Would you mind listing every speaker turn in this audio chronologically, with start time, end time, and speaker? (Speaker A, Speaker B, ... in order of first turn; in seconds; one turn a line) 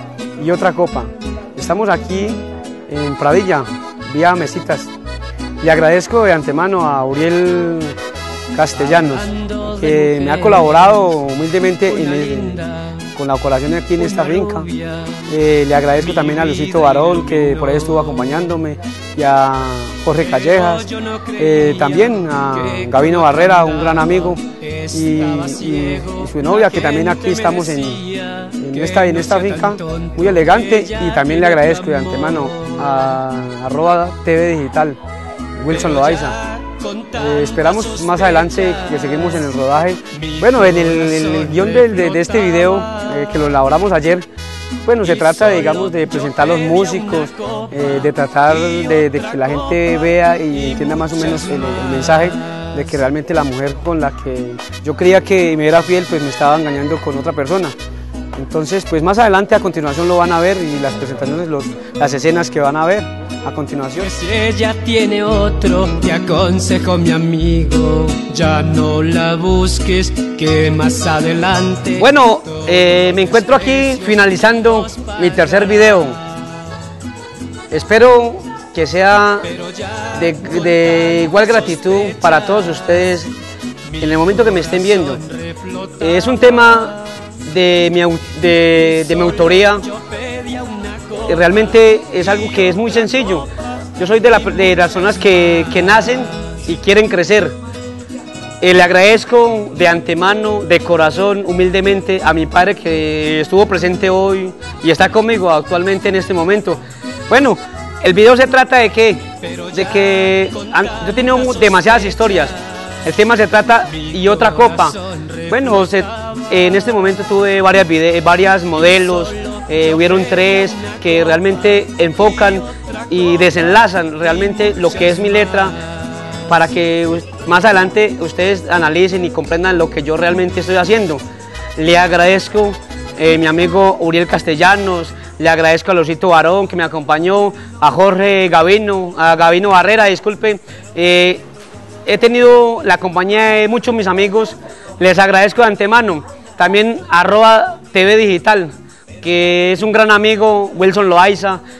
Speaker A: 0.4-4.9
Speaker A: 5.6-8.0
Speaker A: 8.5-35.0
Speaker B: 9.1-10.9
Speaker B: 12.0-12.8
Speaker B: 14.2-15.2
Speaker B: 16.1-18.1
Speaker B: 20.6-32.2
Speaker A: 35.5-36.4
Speaker B: 36.7-39.1
Speaker A: 37.1-44.2
Speaker B: 40.5-42.9
Speaker A: 44.8-57.8
Speaker B: 45.4-47.3
Speaker B: 50.9-51.3
Speaker A: 58.3-64.2
Speaker B: 64.1-72.0
Speaker A: 71.9-76.2
Speaker A: 77.7-83.3
Speaker A: 84.0-89.9
Speaker B: 90.0-91.1
Speaker A: 91.1-97.5
Speaker A: 98.6-125.8
Speaker B: 114.4-114.9
Speaker A: 126.5-131.2
Speaker A: 131.8-141.4
Speaker A: 142.1-151.6